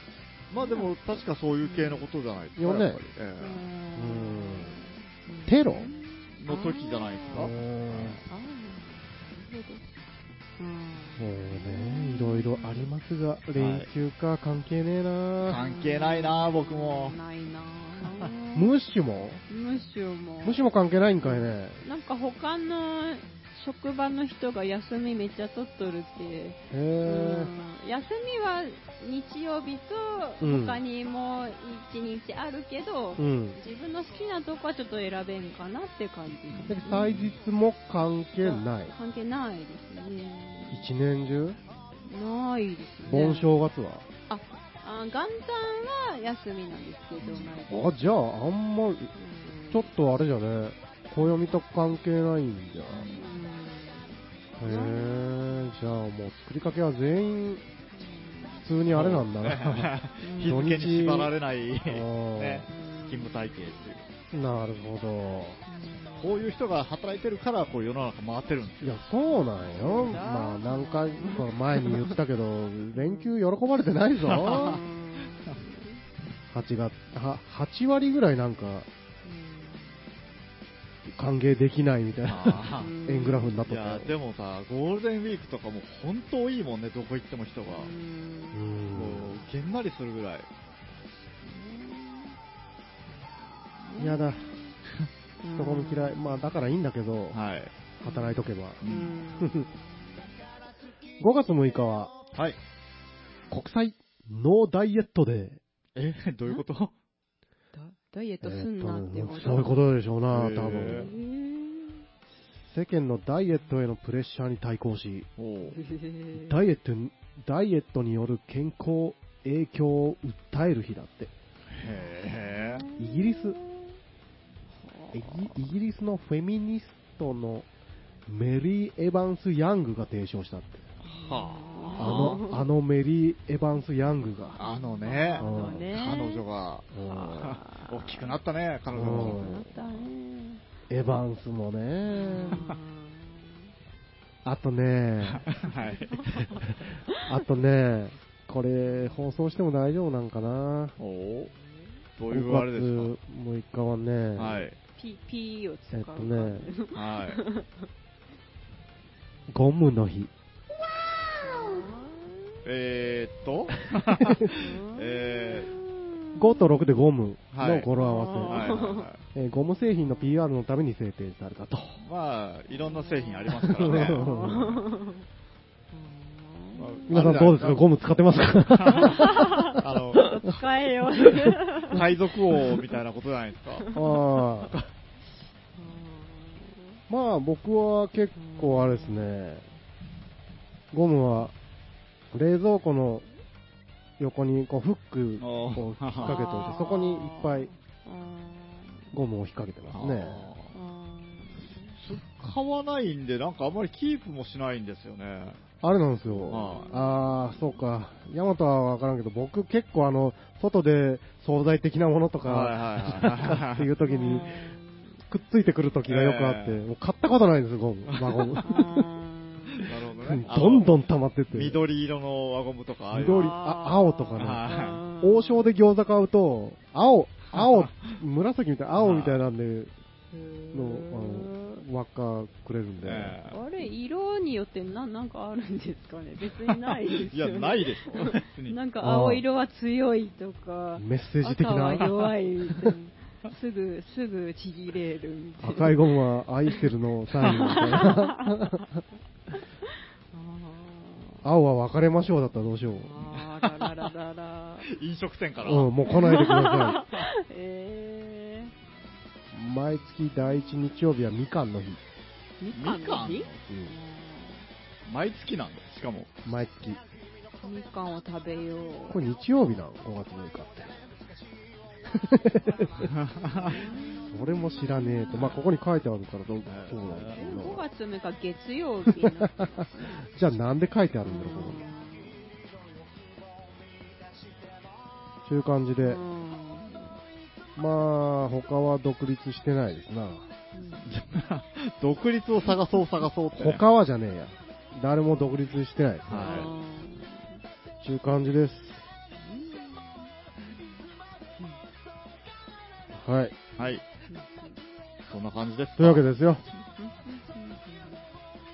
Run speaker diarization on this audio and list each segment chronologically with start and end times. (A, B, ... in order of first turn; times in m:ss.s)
0:00.5-0:03.6 A
0:00.6-0:01.0 B
0:01.6-0:02.1 B
0:02.6-0:03.0 C
0:03.4-0:07.6 B
0:04.0-0:04.8 C
0:05.4-0:05.9 C
0:06.4-0:08.2 A
0:07.3-0:08.2 C
0:08.2-0:09.8 B
0:10.6-0:12.9 B
0:11.2-0:15.6 C
0:13.6-0:13.9 A
0:15.4-0:17.2 A
0:15.6-0:18.7 B
0:18.0-0:18.3 A
0:18.5-0:19.4 C
0:19.5-0:20.6 B
0:20.4-0:21.8 C
0:21.2-0:37.2 B
0:26.7-0:27.5 C
0:30.4-0:30.8 C
0:33.2-0:33.6 C
0:36.5-0:37.3 A
0:36.7-0:39.0 C
0:38.4-0:40.9 B
0:40.7-0:41.6 C
0:42.1-0:43.5 B
0:43.1-0:44.1 C
0:44.3-0:47.9 B
0:47.2-0:47.6 A
0:47.7-0:49.1 C
0:49.2-0:49.9 B
0:49.7-0:53.1 C
0:52.9-0:53.3 A
0:53.1-0:55.7 B
0:54.6-0:57.6 C
0:57.9-0:58.7 B
0:58.6-1:01.3 C
0:58.9-1:04.1 A
1:00.2-1:00.6 B
1:01.9-1:02.7 C
1:02.7-1:03.8 B
1:04.3-1:05.6 C
1:05.7-1:06.5 B
1:06.2-1:09.0 A
1:08.8-1:14.8 C
1:09.8-1:12.1 B
1:12.9-1:13.3 B
1:14.2-1:14.8 A
1:14.5-1:16.0 B
1:16.5-1:18.9 C
1:19.2-1:20.0 B
1:21.1-1:24.2 C
1:22.3-1:22.9 A
1:22.8-1:23.6 B
1:23.7-1:27.9 A
1:27.7-1:28.6 B
1:28.5-1:29.4 C
1:28.9-1:30.5 A
1:31.4-1:32.4 B
1:33.7-1:34.7 B
1:34.0-1:34.5 C
1:35.4-1:36.6 B
1:35.5-1:37.4 C
1:37.3-1:37.7 A
1:38.0-1:38.8 C
1:38.0-1:40.1 B
1:38.8-1:39.2 A
1:39.3-1:39.7 C
1:41.2-1:42.1 C
1:42.3-1:42.6 A
1:43.5-1:45.6 C
1:46.0-1:46.9 A
1:47.7-1:49.8 B
1:48.4-1:51.1 C
1:50.3-1:51.1 A
1:50.8-1:52.0 B
1:52.5-1:55.3 C
1:55.4-1:55.8 A
1:55.7-1:56.6 B
1:56.3-2:01.3 C
2:01.7-2:02.8 A
2:02.3-2:04.0 B
2:03.0-2:03.6 C
2:04.8-2:05.6 B
2:05.1-2:07.7 C
2:08.3-2:10.9 C
2:11.0-2:12.4 A
2:11.1-2:12.6 B
2:12.0-2:14.6 C
2:14.6-2:19.5 A
2:14.6-2:16.4 B
2:15.4-2:15.9 C
2:16.9-2:17.5 C
2:17.1-2:18.4 B
2:18.9-2:19.7 C
2:19.0-2:20.6 B
2:20.9-2:22.6 C
2:22.1-2:23.7 B
2:24.4-2:25.5 C
2:25.2-2:26.6 A
2:26.1-2:26.6 B
2:26.7-2:31.0 C
2:28.8-2:29.2 B
2:31.0-2:31.5 A
2:32.2-2:33.1 A
2:32.3-2:34.6 C
2:34.4-2:34.8 A
2:35.0-2:37.8 B
2:35.9-2:36.7 C
2:36.9-2:37.4 A
2:39.5-2:40.3 C
2:41.4-2:42.6 B
2:42.6-2:45.7 A
2:44.2-2:44.5 C
2:44.5-2:46.8 B
2:46.4-2:52.0 C
2:47.5-2:47.9 A
2:48.0-2:49.1 B
2:48.5-2:49.2 A
2:52.0-2:54.6 A
2:52.7-2:55.2 B
2:53.6-2:54.8 C
2:55.9-2:57.3 B
2:56.8-2:57.8 A
2:57.1-2:59.7 C
2:58.7-3:00.4 A
2:58.9-3:02.8 B
3:01.8-3:03.9 A
3:03.8-3:04.2 B
3:03.9-3:04.8 C
3:05.8-3:07.0 B
3:07.1-3:09.7 C
3:08.4-3:09.3 B
3:10.9-3:11.6 C
3:12.3-3:13.3 C
3:14.2-3:17.7 C
3:15.4-3:16.5 A
3:16.2-3:19.1 B
3:19.1-3:20.5 C
3:19.9-3:20.7 A
3:20.7-3:21.9 B
3:22.0-3:25.6 A
3:25.8-3:34.8 C
3:26.5-3:26.9 A
3:26.6-3:27.6 B
3:32.4-3:33.9 A
3:34.0-3:35.0 B
3:35.3-3:39.1 C
3:36.1-3:36.8 A
3:38.1-3:38.6 A
3:38.6-3:39.9 B
3:39.7-3:40.9 A
3:40.2-3:41.8 C
3:41.5-3:43.6 A
3:43.1-3:44.7 C
3:43.2-3:45.7 B
3:44.4-3:45.0 A
3:45.2-3:49.9 C
3:47.5-3:48.1 A
3:49.0-3:49.4 A
3:50.3-3:51.8 B
3:50.7-3:53.4 C
3:53.0-3:53.6 A
3:53.5-4:06.2 B
3:56.8-3:58.8 A
3:59.0-3:59.4 C
4:01.0-4:02.1 C
4:05.6-4:08.8 C
4:07.4-4:08.8 B
4:10.3-4:11.4 B
4:11.4-4:13.2 C
4:13.0-4:14.9 B
4:13.4-4:13.9 A
4:14.8-4:15.9 A
4:15.6-4:17.1 C
4:16.1-4:18.7 B
4:19.5-4:22.0 C
4:22.6-4:24.7 B
4:22.7-4:23.6 A
4:23.7-4:24.0 C
4:25.1-4:26.3 A
4:26.4-4:27.0 C
4:27.6-4:29.2 B
4:29.1-4:31.0 C
4:32.1-4:33.1 C
4:33.0-4:33.8 A
4:33.6-4:35.6 B
4:34.3-4:37.8 C
4:36.7-4:37.4 A
4:37.4-4:40.1 B
4:39.2-4:39.8 C
4:40.3-4:41.9 C
4:41.2-4:42.5 B
4:45.4-4:46.2 C
4:46.0-4:47.2 B
4:47.8-4:50.5 C
4:50.7-4:51.1 B
4:51.1-4:53.8 A
4:53.6-4:56.7 C
4:56.3-4:56.7 A
4:56.4-4:57.6 B
4:58.0-4:59.0 C
4:59.4-5:00.3 B
5:03.1-5:03.6 C
5:03.8-5:04.0 A
5:04.3-5:04.8 B
5:05.3-5:06.3 A
5:06.0-5:06.6 C
5:06.8-5:08.2 B